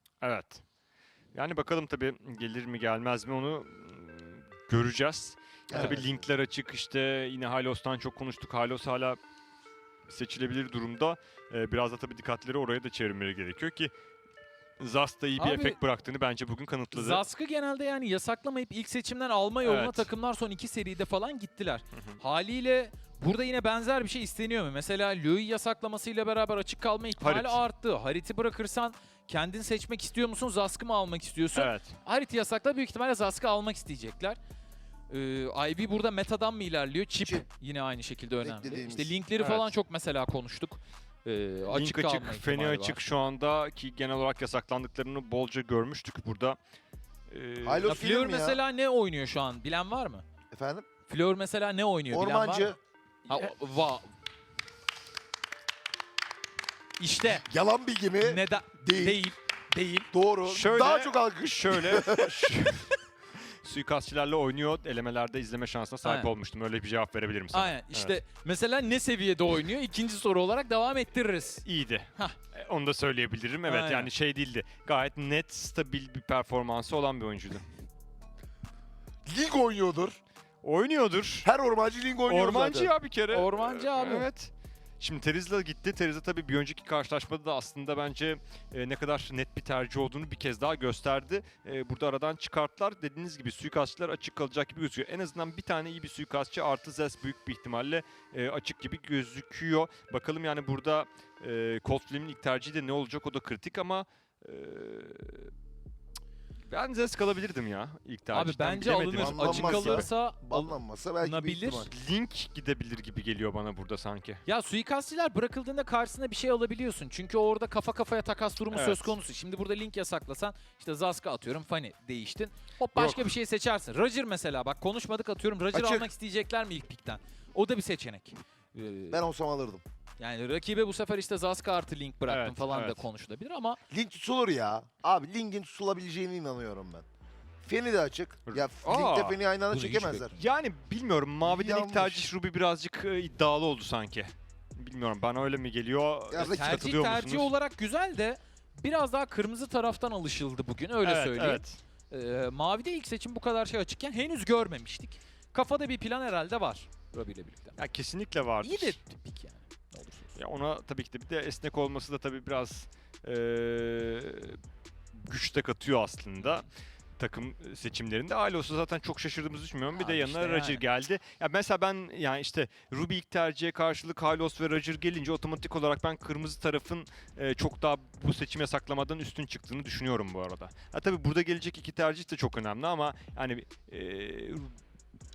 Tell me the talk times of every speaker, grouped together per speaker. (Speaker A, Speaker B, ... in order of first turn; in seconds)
Speaker A: 0.2-0.6, 1.3-9.2, 10.1-13.9, 14.8-17.2, 19.6-20.1, 27.2-27.6, 31.6-32.0, 39.4-39.7, 41.7-46.6, 47.3-48.0, 60.5-68.2, 71.6-77.7, 80.6-81.5, 82.3-105.5, 106.7-110.1, 111.9-114.4, 118.7-119.2, 122.9-123.3, 132.3-133.0, 138.5-139.4, 140.3-147.5, 151.0-151.8, 157.8-159.0, 160.4-164.6, 165.1-166.7, 167.2-184.8
Speaker B: 5.7-6.2, 38.4-39.1, 47.6-48.6, 50.5-50.9, 52.1-52.8, 57.4-59.2, 60.1-62.5, 79.3-80.2, 81.5-82.9, 109.2-111.9, 125.7-126.1, 129.1-129.8, 133.9-137.1, 137.6-140.4, 141.4-142.3, 146.3-146.7
Speaker C: 15.4-15.8, 16.9-34.4, 35.1-43.0, 47.8-50.2, 51.1-52.8, 53.3-54.1, 57.0-57.5, 58.2-60.1, 66.0-66.3, 67.5-71.6, 73.7-74.1, 83.3-84.3, 108.3-111.9, 114.5-129.2, 130.2-133.8, 139.7-140.4, 146.3-157.8, 158.6-160.4, 166.4-166.7, 169.9-170.8